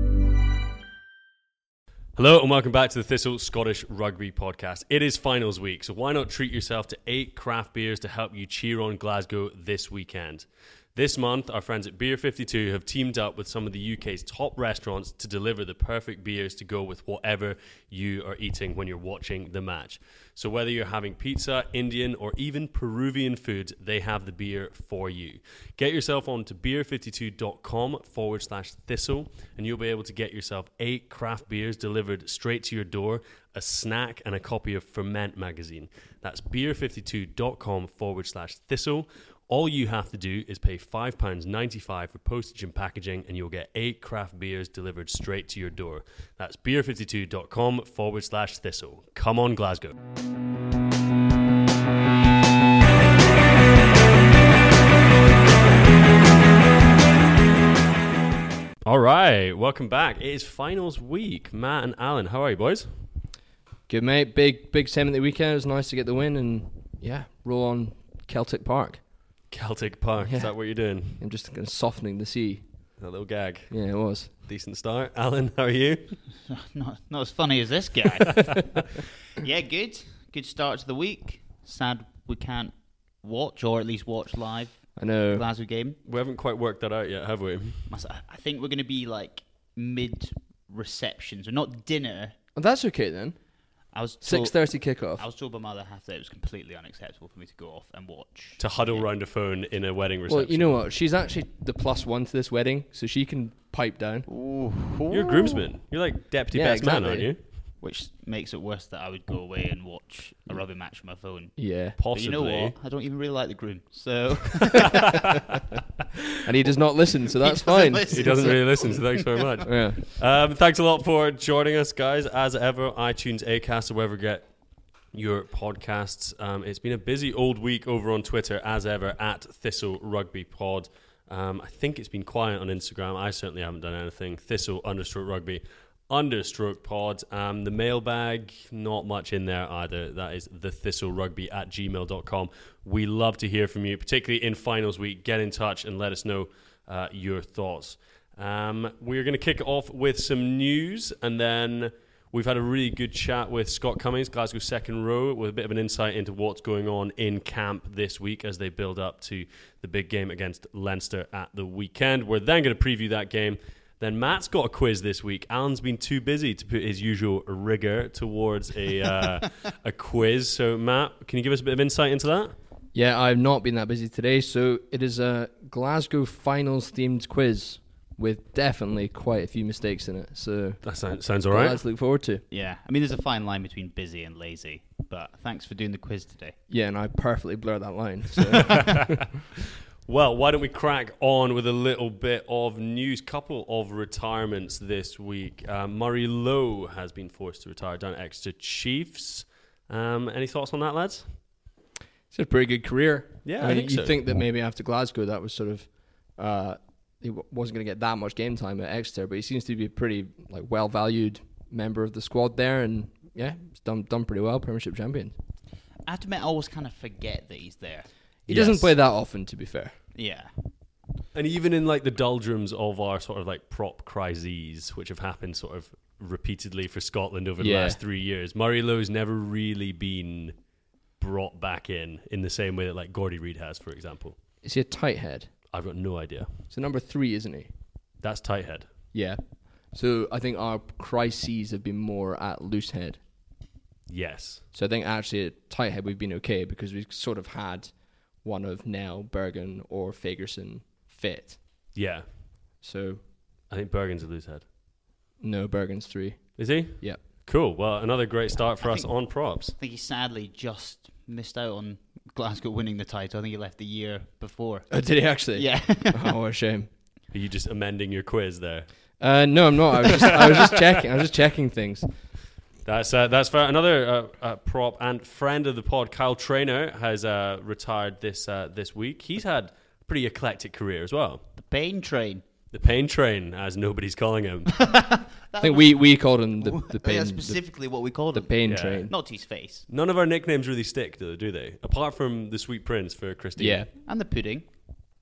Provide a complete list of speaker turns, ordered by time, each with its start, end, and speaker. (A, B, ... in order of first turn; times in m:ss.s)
0:02.2-0:49.9 A
0:58.8-1:02.9 A
1:03.9-1:09.0 B
1:09.5-1:11.2 A
1:10.2-1:12.6 B
1:13.0-1:13.8 A
1:13.7-1:14.3 B
1:14.4-1:16.2 A
1:16.5-1:26.0 C
1:25.0-1:25.4 B
1:26.0-1:27.9 A
1:27.9-1:32.4 C
1:32.6-1:33.4 B
1:33.9-1:39.1 C
1:34.2-1:35.2 B
1:38.6-1:40.8 A
1:40.3-1:44.3 B
1:44.3-1:45.6 C
1:45.1-1:47.4 A
1:46.5-1:47.3 B
1:47.8-1:55.1 C
1:51.6-1:52.0 B
1:52.0-1:52.8 A
1:56.4-1:58.3 B
1:57.4-1:59.4 C
1:58.1-2:04.5 A
1:59.6-2:00.0 B
2:05.1-2:52.5 A
2:52.9-3:00.9 B
3:00.8-3:01.8 A
3:01.5-3:02.4 B
3:02.5-3:06.6 C
3:06.7-3:09.2 B
3:10.0-3:21.3 A
3:22.3-3:35.4 B
3:23.4-3:24.1 A
3:36.0-3:38.1 C
3:38.5-3:39.9 B
3:38.5-3:38.9 A
3:40.1-3:40.5 C
3:41.3-3:50.5 A
3:47.6-3:48.0 B
3:51.2-3:54.4 A
3:54.6-3:55.5 B
3:55.7-3:56.6 A
3:56.7-3:57.7 B
3:58.2-3:58.9 A
3:59.1-4:03.2 B
4:04.1-4:04.6 A
4:04.7-4:11.6 B
4:11.9-4:12.2 A
4:12.8-4:13.2 B
4:13.7-4:14.6 A
4:15.4-4:17.2 B
4:16.6-4:19.7 A
4:18.8-4:26.3 C
4:24.9-4:26.9 B
4:27.3-4:28.9 A
4:29.2-4:32.1 B
4:32.8-4:41.4 A
4:41.5-4:42.4 C
4:42.7-4:44.8 A
4:44.8-4:49.8 C
4:45.6-4:47.6 B
4:48.3-4:49.1 B
4:48.7-4:49.1 A
4:49.9-4:53.8 A
4:53.6-4:53.9 B
4:54.0-4:54.7 C